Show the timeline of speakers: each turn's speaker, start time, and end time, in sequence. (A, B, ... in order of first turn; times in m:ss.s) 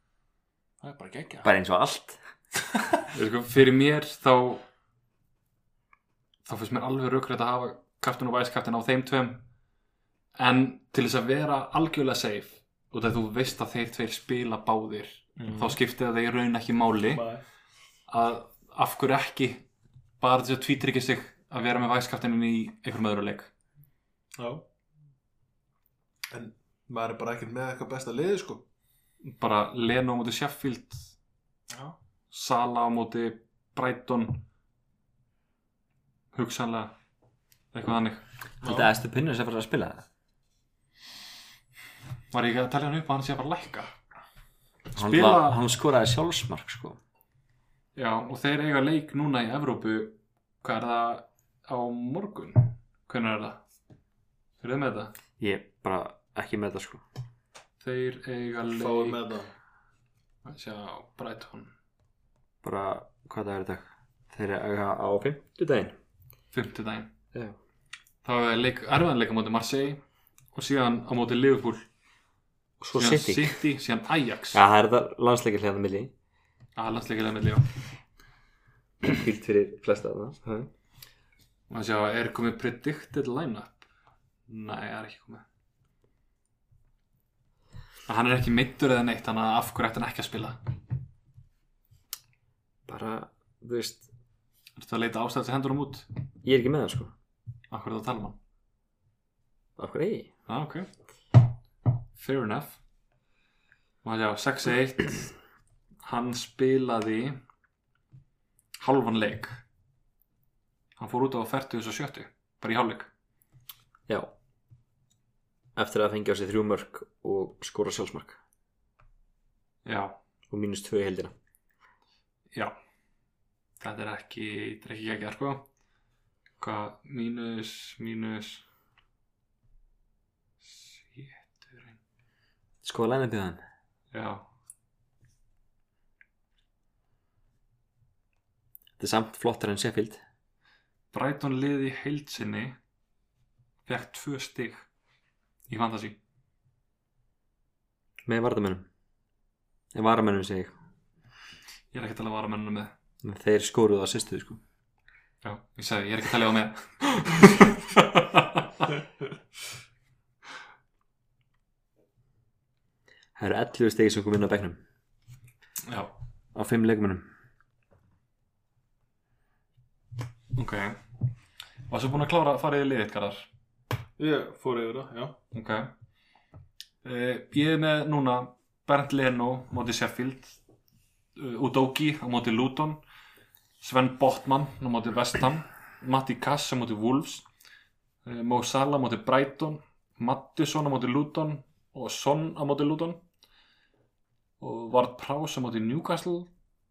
0:00.8-0:01.5 A
0:01.4-0:02.2 B
0:03.1-0:04.6 C
0:06.4-0:09.4 C
0:10.4-0:17.2 C
0:15.4-0:15.8 A
0:17.1-0:17.4 A
0:18.1-0:19.6 C
0:20.2-0:23.5 C
0:24.4-0:24.6 A
0:26.3-0:28.6 A
0:29.2-0:31.0 C
0:32.3-0:34.4 C
0:36.3-0:36.9 C
0:37.7-0:38.2 C
0:38.6-0:38.9 A
0:38.6-0:40.0 B
0:42.3-0:43.9 C
0:44.9-0:45.6 C
0:45.0-0:47.0 B
0:48.0-0:53.6 C
0:54.6-0:55.1 C
0:55.4-0:57.0 B
0:57.8-0:59.4 C
0:58.6-0:59.5 A
1:00.4-1:01.7 C
1:02.6-1:05.9 B
1:06.5-1:07.1 C
1:08.2-1:10.0 C
1:10.5-1:11.8 C
1:12.8-1:13.6 B
1:12.9-1:14.6 C
1:14.5-1:16.1 B
1:16.8-1:17.6 C
1:19.0-1:20.7 B
1:21.7-1:23.8 C
1:24.5-1:25.4 C
1:28.1-1:30.6 C
1:32.9-1:34.1 B
1:34.8-1:36.1 C
1:36.4-1:37.1 B
1:37.7-1:38.4 C
1:39.8-1:40.3 B
1:40.5-1:40.9 C
1:42.2-1:42.8 C
1:44.0-1:45.3 C
1:46.0-1:47.4 C
1:48.8-1:49.6 C
1:51.0-1:53.1 C
1:55.8-1:58.4 B
1:59.8-2:00.2 C
2:00.5-2:01.3 B
2:03.8-2:05.6 C
2:06.6-2:08.6 C
2:10.6-2:12.0 C
2:12.8-2:13.6 B
2:14.1-2:14.4 C
2:19.0-2:20.2 B
2:21.1-2:22.8 C
2:23.9-2:24.9 C
2:25.7-2:26.2 C
2:28.2-2:28.9 B
2:29.9-2:30.7 B
2:31.9-2:32.9 C
2:33.2-2:34.6 B
2:35.4-2:38.9 C
2:43.4-2:44.8 B
2:45.9-2:46.1 C
2:46.5-2:47.2 B
2:50.5-2:51.0 C
2:51.9-2:53.5 C
2:54.2-2:55.4 A
2:55.5-2:55.9 C
2:57.0-3:00.6 C
3:01.4-3:03.0 C
3:03.8-3:07.4 C
3:08.2-3:13.2 C
3:14.6-3:16.5 C